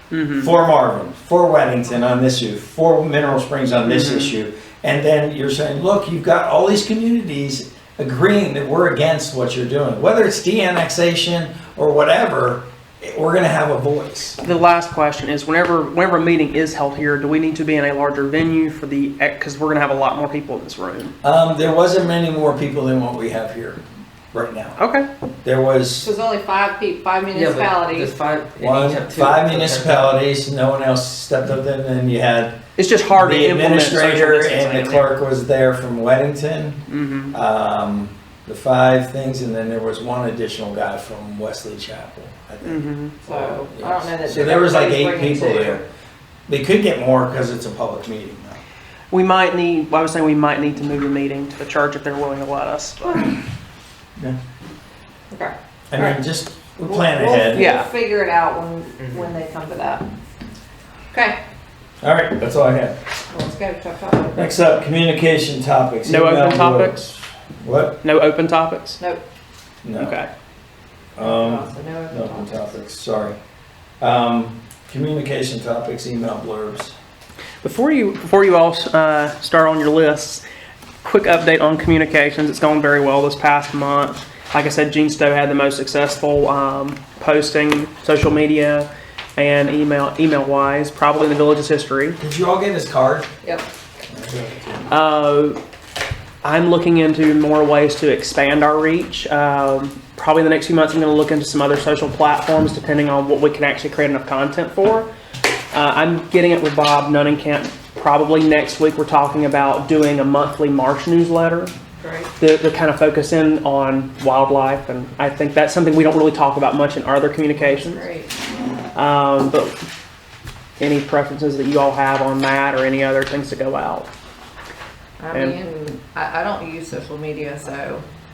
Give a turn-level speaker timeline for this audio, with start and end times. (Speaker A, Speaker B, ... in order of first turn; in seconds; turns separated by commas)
Speaker A: 0.1-0.5, Speaker B: 0.3-14.4, Speaker A: 3.9-4.3, Speaker A: 14.4-21.1, Speaker B: 21.2-24.8, Speaker A: 24.8-25.1, Speaker B: 25.4-26.1, Speaker C: 26.0-28.2, Speaker D: 27.3-30.1, Speaker B: 28.6-45.8, Speaker A: 32.8-35.1, Speaker A: 36.9-37.4, Speaker A: 42.6-43.2, Speaker C: 43.2-45.9, Speaker B: 46.5-48.6, Speaker A: 49.1-53.0, Speaker C: 53.0-53.3, Speaker C: 55.3-56.2, Speaker B: 55.9-57.7, Speaker C: 56.8-60.0, Speaker A: 57.5-57.9, Speaker C: 61.1-61.4, Speaker B: 62.0-63.0, Speaker C: 63.3-64.5, Speaker B: 64.4-68.0, Speaker A: 66.1-67.1, Speaker A: 68.0-69.0, Speaker B: 69.8-70.2, Speaker A: 70.0-70.3, Speaker B: 71.2-73.4, Speaker C: 71.2-72.7, Speaker B: 74.0-77.0, Speaker A: 77.6-80.4, Speaker A: 81.0-92.2, Speaker B: 92.2-93.3, Speaker B: 94.1-94.9, Speaker A: 94.9-95.6, Speaker A: 96.4-105.1, Speaker A: 105.7-111.7, Speaker C: 112.0-112.3, Speaker A: 112.4-118.1, Speaker C: 117.5-118.3, Speaker A: 119.0-119.7, Speaker A: 120.8-124.1, Speaker C: 125.2-128.0